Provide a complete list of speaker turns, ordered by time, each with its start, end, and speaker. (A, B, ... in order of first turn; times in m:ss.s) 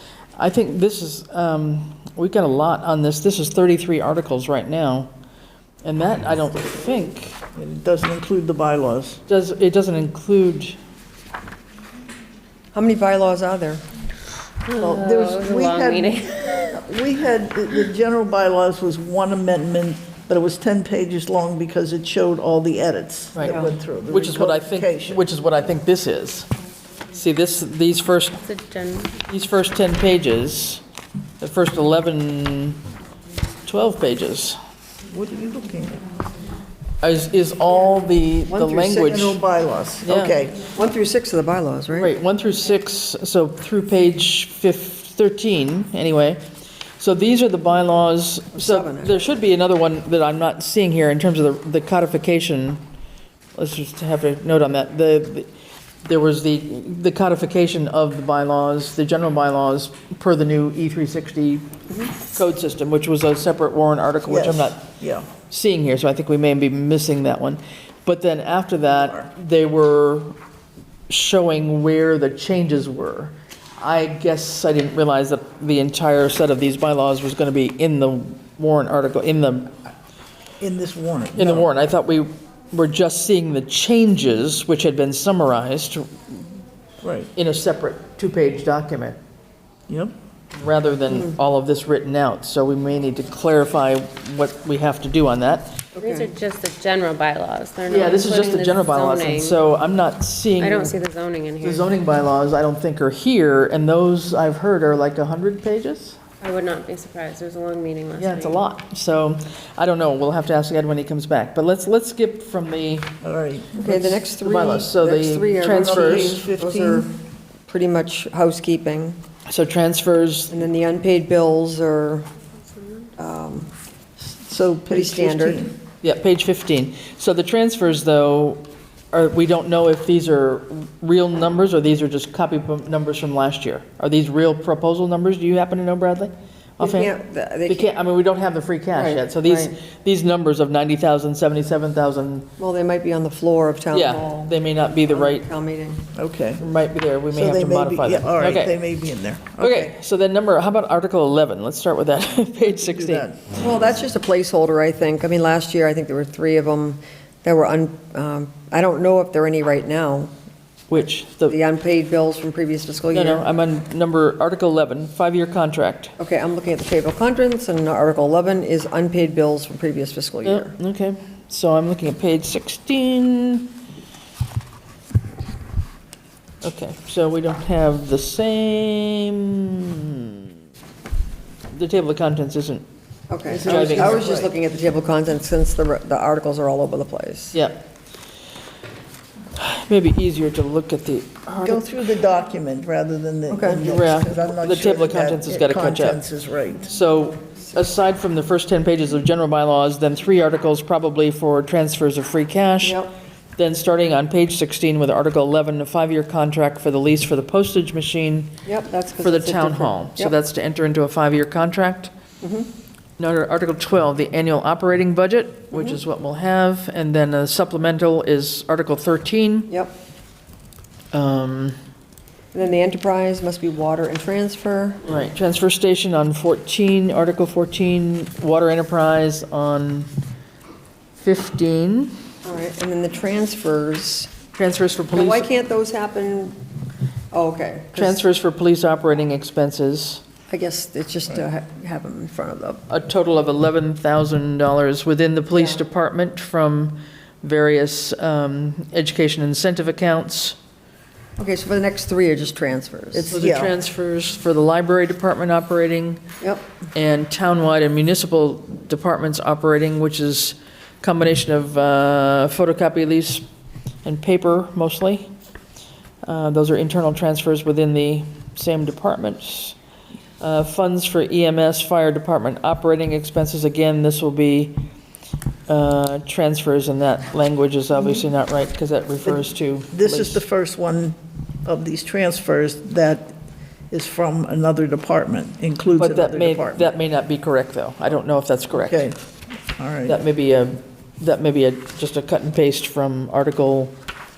0:00.4-0:05.1 A
0:05.8-0:07.4 A
0:07.6-0:09.2 B
0:09.3-0:10.8 A
0:12.7-0:13.8 C
0:14.6-0:16.7 D
0:14.8-0:25.2 B
0:23.3-0:26.5 A
0:27.1-0:28.4 A
0:28.4-0:29.2 D
0:29.3-0:30.8 A
0:31.4-0:32.8 A
0:33.6-0:34.6 A
0:35.1-0:36.0 B
0:37.0-0:39.4 A
0:38.5-0:40.6 B
0:40.0-0:40.4 A
0:40.7-0:42.1 C
0:42.0-0:46.4 A
0:47.0-0:52.8 A
0:48.5-0:49.2 C
0:53.6-0:55.5 A
0:56.0-1:01.7 A
1:02.2-1:04.8 A
1:04.3-1:05.3 B
1:05.5-1:10.3 A
1:11.1-1:19.7 A
1:20.6-1:21.7 B
1:21.4-1:26.1 A
1:27.0-1:27.3 B
1:27.4-1:29.2 A
1:29.9-1:30.1 B
1:30.5-1:35.9 A
1:31.1-1:31.4 C
1:35.9-1:36.3 C
1:36.0-1:39.6 D
1:37.9-1:41.0 A
1:40.6-1:42.0 D
1:41.6-1:46.2 A
1:46.4-1:48.6 D
1:48.2-1:53.1 A
1:53.2-1:53.8 B
1:53.8-1:57.1 C
1:53.8-1:56.4 A
1:55.7-1:57.1 B
1:57.7-1:59.2 C
1:59.5-2:00.5 A
2:00.5-2:02.3 C
2:03.2-2:03.7 C
2:04.2-2:05.8 B
2:04.9-2:05.7 C
2:06.0-2:17.1 A
2:16.8-2:17.9 C
2:17.7-2:22.5 A
2:18.9-2:19.7 C
2:22.6-2:26.0 C
2:23.9-2:25.5 A
2:26.1-2:26.6 B
2:26.6-2:28.8 A
2:27.3-2:29.9 B
2:29.6-2:33.2 A
2:32.8-2:33.4 B
2:33.6-2:40.3 C
2:40.9-2:41.6 A
2:41.5-2:43.4 C
2:43.1-2:46.1 A
2:46.2-2:50.7 C
2:50.4-2:53.8 A
2:56.6-3:00.5 A
3:01.7-3:02.8 A
3:03.3-3:07.6 C
3:03.5-3:04.5 B
3:03.5-3:04.4 A
3:07.5-3:07.8 A
3:09.6-3:11.9 A
3:11.5-3:16.9 B
3:13.5-3:13.8 C
3:13.8-3:16.2 A
3:16.8-3:23.0 A
3:22.8-3:23.1 C
3:23.6-3:28.5 A
3:28.6-3:30.4 C
3:29.2-3:32.1 A
3:32.4-3:32.7 C
3:33.2-3:39.7 A
3:35.7-3:36.0 C
3:39.7-3:39.9 C
3:41.1-3:41.8 A
3:42.5-3:45.0 C
3:45.0-3:50.1 A
3:51.2-3:52.1 A
3:52.4-3:54.3 C
3:54.5-3:55.5 A
3:55.1-3:56.6 C
3:57.3-3:58.2 C
3:57.9-4:00.2 A
4:00.5-4:02.8 C
4:02.9-4:10.6 A
4:05.5-4:05.8 C
4:11.4-4:13.4 C
4:13.1-4:16.2 A
4:13.3-4:13.8 B
4:16.4-4:16.6 C
4:16.9-4:23.4 A
4:24.0-4:25.3 A
4:26.2-4:29.8 A
4:30.4-4:34.8 A
4:35.7-4:40.4 A
4:39.9-4:43.3 B
4:43.9-4:46.9 B
4:46.0-4:49.0 A
4:48.8-4:49.2 B
4:49.7-4:50.2 B
4:50.0-4:53.9 A